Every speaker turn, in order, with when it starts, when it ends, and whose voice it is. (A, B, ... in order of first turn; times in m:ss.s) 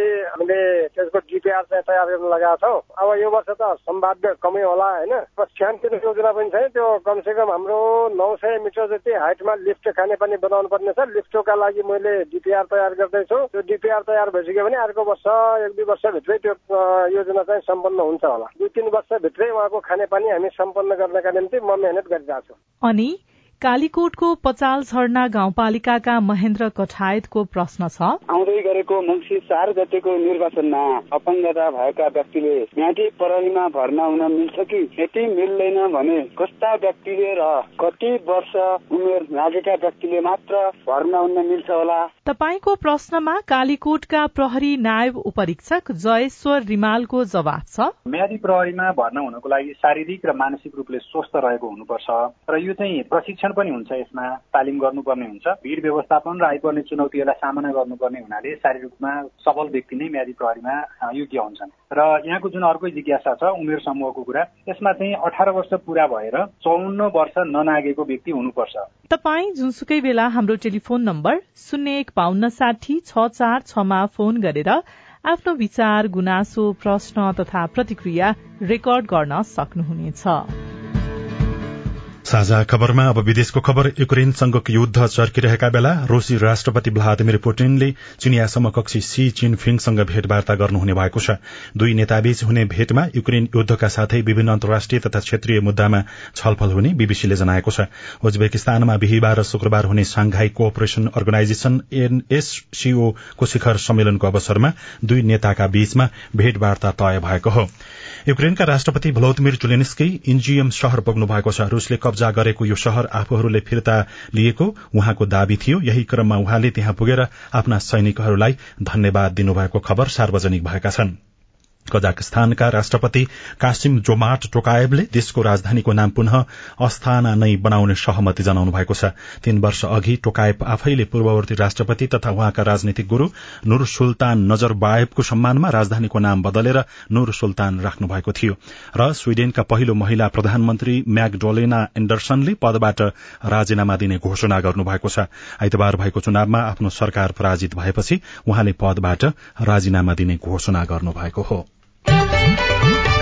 0:00.4-0:22.5 A
0:22.8-0:28.2 B
0:28.3-0:42.1 C
0:42.2-0:47.9 B
0:48.1-1:08.9 D
1:09.1-1:20.5 B
1:22.3-1:47.7 E
1:48.3-2:01.1 E
2:01.9-2:31.6 E